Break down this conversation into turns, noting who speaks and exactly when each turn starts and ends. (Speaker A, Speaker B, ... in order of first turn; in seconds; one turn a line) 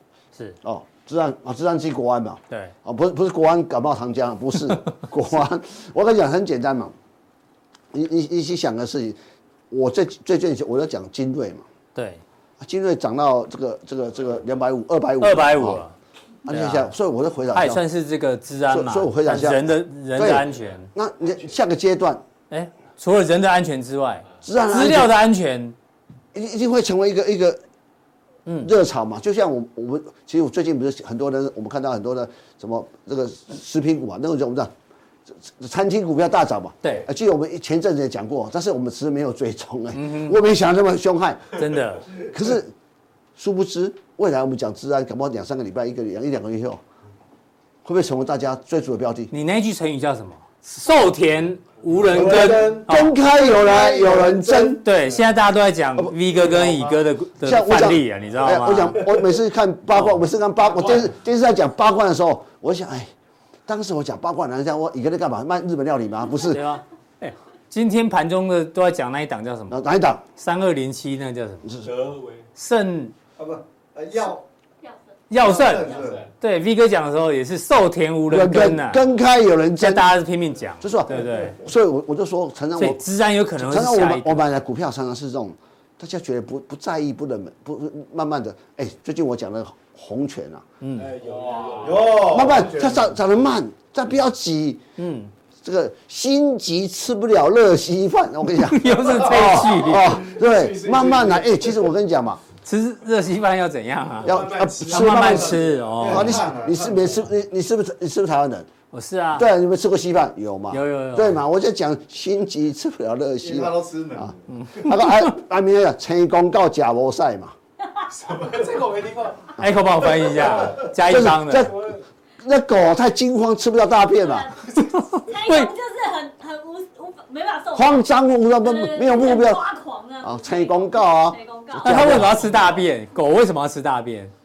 Speaker A: 0.6-6.9
Speaker A: 7.9-9.2
Speaker A: 9.7-11.7
Speaker B: 11.9-12.2
Speaker A: 12.6-15.8
Speaker B: 15.2-15.9
Speaker A: 16.5-17.8
Speaker B: 16.5-16.9
Speaker B: 17.5-20.9
Speaker A: 18.7-22.2
Speaker B: 22.5-25.8
Speaker A: 24.4-25.2
Speaker A: 26.3-27.6
Speaker A: 28.6-34.7
Speaker A: 35.3-42.7
Speaker B: 36.8-37.1
Speaker B: 39.9-40.4
Speaker B: 41.6-42.1
Speaker A: 43.4-46.8
Speaker A: 47.8-49.3
Speaker B: 49.3-53.1
Speaker C: 52.1-52.9
Speaker A: 52.2-54.9
Speaker C: 53.4-54.8
Speaker B: 54.7-59.1
Speaker A: 56.0-56.7
Speaker A: 57.4-63.1
Speaker B: 59.9-60.2
Speaker A: 63.7-66.7
Speaker B: 66.4-69.8
Speaker A: 69.7-70.2
Speaker B: 70.4-71.7
Speaker A: 71.7-71.9
Speaker D: 71.8-72.5
Speaker B: 72.5-73.2
Speaker C: 73.4-74.4
Speaker D: 74.1-74.3
Speaker E: 74.8-76.2
Speaker B: 75.3-79.0
Speaker C: 75.4-76.2
Speaker D: 75.4-76.3
Speaker A: 78.3-80.2
Speaker B: 79.8-81.6
Speaker A: 80.8-83.0
Speaker B: 82.8-84.4
Speaker A: 83.6-90.7
Speaker B: 90.8-91.1
Speaker D: 91.0-92.7
Speaker C: 91.4-93.1
Speaker A: 92.0-94.8
Speaker B: 95.0-95.3
Speaker A: 95.6-102.4
Speaker B: 98.5-100.3
Speaker D: 100.5-101.6
Speaker B: 102.6-106.4
Speaker A: 104.2-108.7
Speaker D: 104.3-105.2
Speaker C: 105.1-105.4
Speaker C: 106.0-107.1
Speaker B: 108.9-109.5
Speaker A: 109.3-117.6
Speaker B: 110.7-111.4
Speaker C: 113.4-114.3
Speaker B: 114.5-115.3
Speaker D: 118.3-119.5
Speaker B: 119.6-121.7
Speaker A: 121.0-124.5
Speaker E: 124.2-128.1
Speaker B: 124.7-125.7
Speaker A: 127.7-129.7
Speaker E: 128.6-132.4
Speaker A: 130.2-132.4
Speaker B: 131.8-134.3